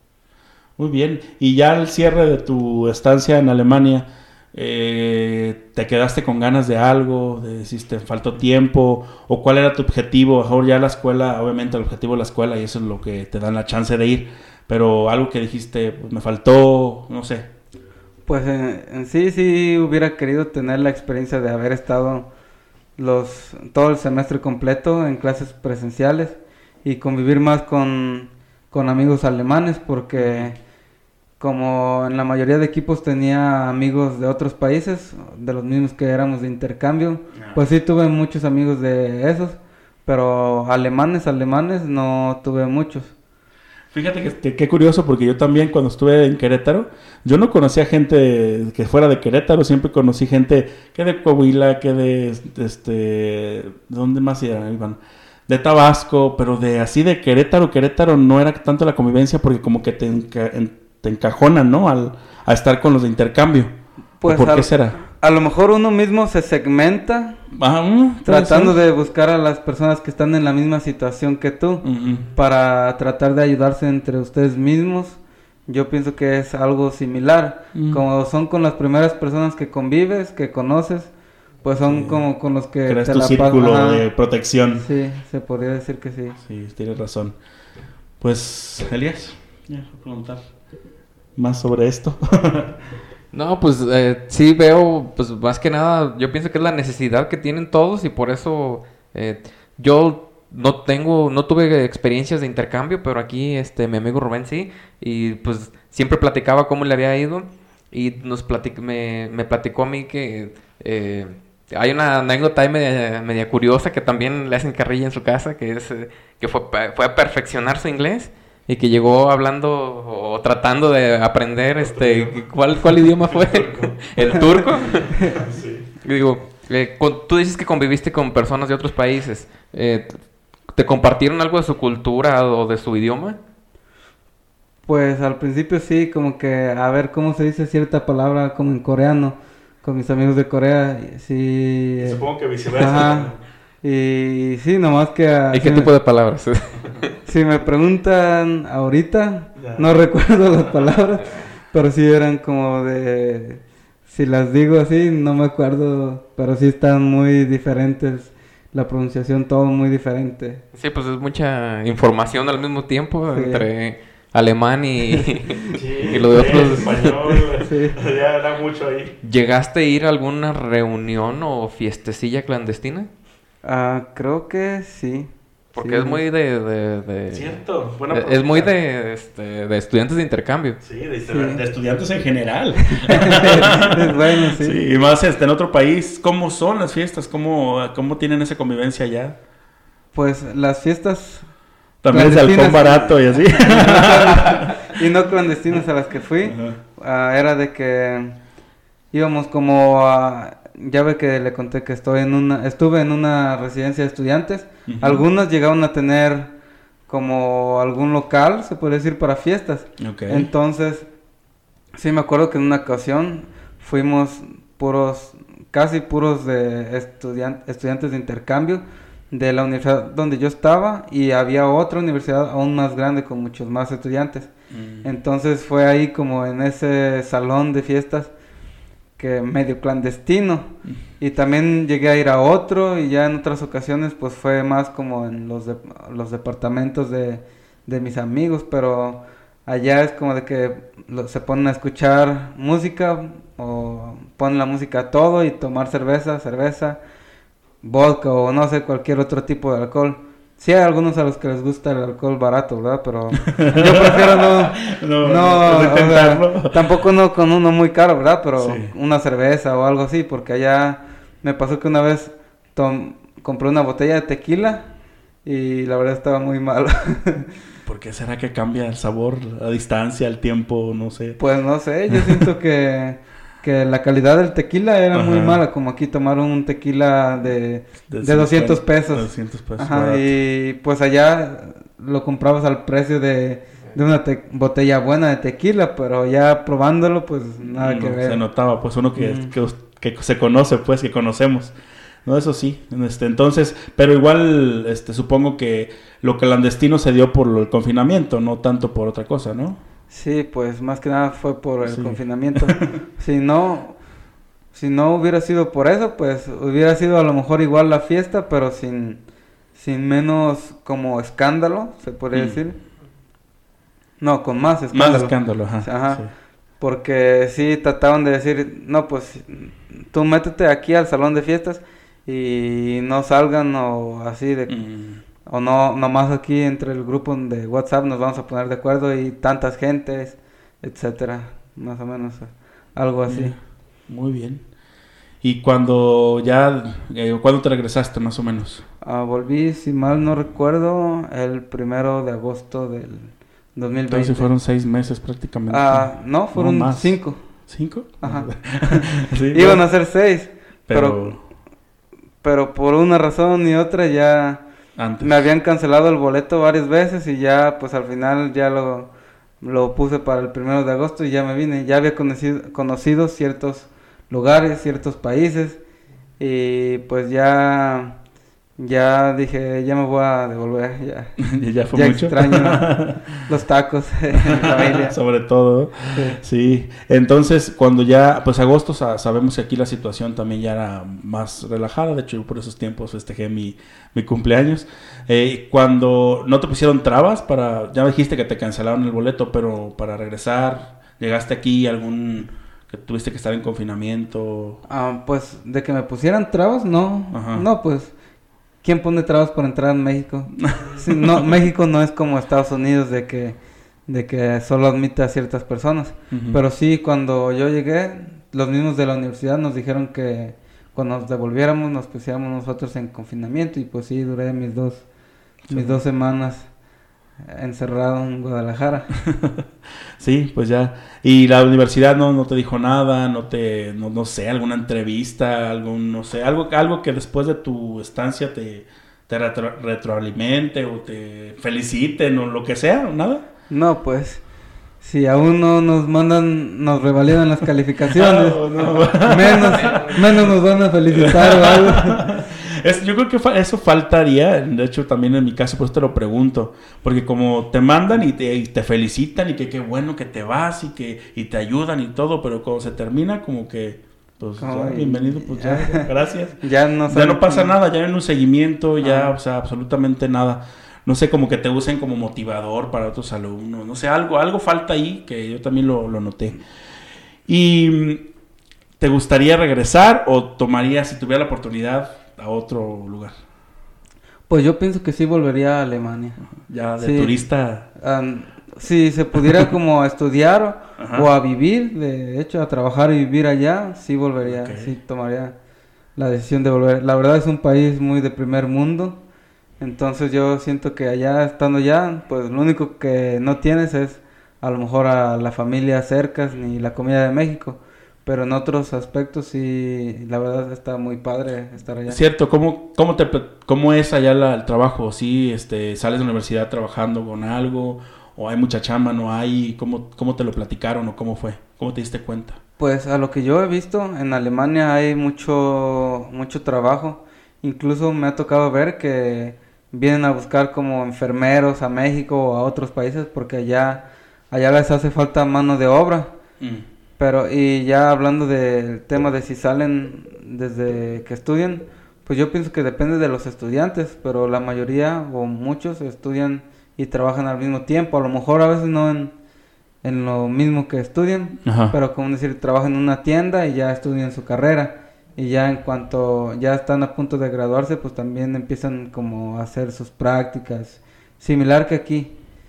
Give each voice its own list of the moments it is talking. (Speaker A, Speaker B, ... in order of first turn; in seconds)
Speaker A: 0.8-17.5, 30.2-30.5, 37.4-37.6, 43.9-63.7, 64.2-65.0, 67.5-68.8, 71.8-72.3, 77.7-78.0, 81.9-82.3, 82.9-84.8, 86.4-87.4, 88.2-90.5, 91.4-92.7, 121.8-122.4, 123.3-125.9, 142.0-143.4, 149.6-149.8, 165.7-169.2, 177.3-178.7, 180.8-189.4, 192.0-194.9, 196.5-196.8, 204.9-205.2, 210.0-210.5, 224.7-225.1, 253.4-257.0, 258.6-258.9, 267.9-271.4, 272.1-272.5, 275.1-275.6, 278.1-280.4, 287.6-291.7, 292.3-299.8, 301.9-303.0, 312.3-312.6, 314.9-316.3, 324.7-325.2, 333.3-334.6, 335.4-338.8, 344.1-349.8, 350.9-351.4, 355.0-355.4, 371.4-373.4, 374.3-394.8, 397.3-397.6, 400.6-401.4, 406.3-406.6, 415.7-416.0, 419.2-419.6, 420.2-433.4, 438.1-440.4, 441.1-466.6, 467.5-468.3, 469.0-473.3, 476.6-477.9, 481.0-481.3, 484.4-484.9, 502.1-512.6, 526.6-526.9, 541.6-542.0
Speaker B: 18.3-22.3, 23.0-30.6, 31.4-43.1, 64.2-67.4, 68.2-81.1, 81.6-84.0, 84.8-86.4, 124.3-125.4, 134.9-142.2, 142.7-143.3, 143.8-145.9, 147.3-160.6, 163.3-163.7, 167.6-168.0, 173.6-176.2, 181.3-181.6, 182.9-184.8, 190.1-191.5, 192.1-198.4, 199.1-206.5, 207.1-211.1, 211.9-224.5, 225.0-228.3, 229.2-247.0, 247.8-264.9, 265.4-267.5, 271.4-288.4, 289.2-289.5, 300.1-304.0, 304.7-309.2, 309.8-312.8, 314.2-316.2, 316.8-324.8, 325.5-333.6, 339.0-344.5, 345.7-347.4, 348.2-351.4, 352.4-354.6, 355.2-359.1, 359.6-365.8, 366.4-368.2, 368.8-371.4, 371.9-372.9, 373.5-375.2, 376.1-376.4, 394.9-398.1, 398.8-415.0, 415.7-416.7, 417.4-419.1, 433.7-434.4, 435.0-442.3, 454.6-456.1, 456.6-457.7, 459.0-459.3, 474.5-476.4, 477.0-477.3, 478.0-485.6, 486.2-489.2, 489.8-502.2, 512.8-526.3, 527.2-539.3, 540.0-552.4
Speaker C: 93.3-125.1, 126.0-130.2, 130.7-133.4, 145.5-147.1, 160.7-167.4, 169.2-173.1, 175.8-177.6, 178.1-180.8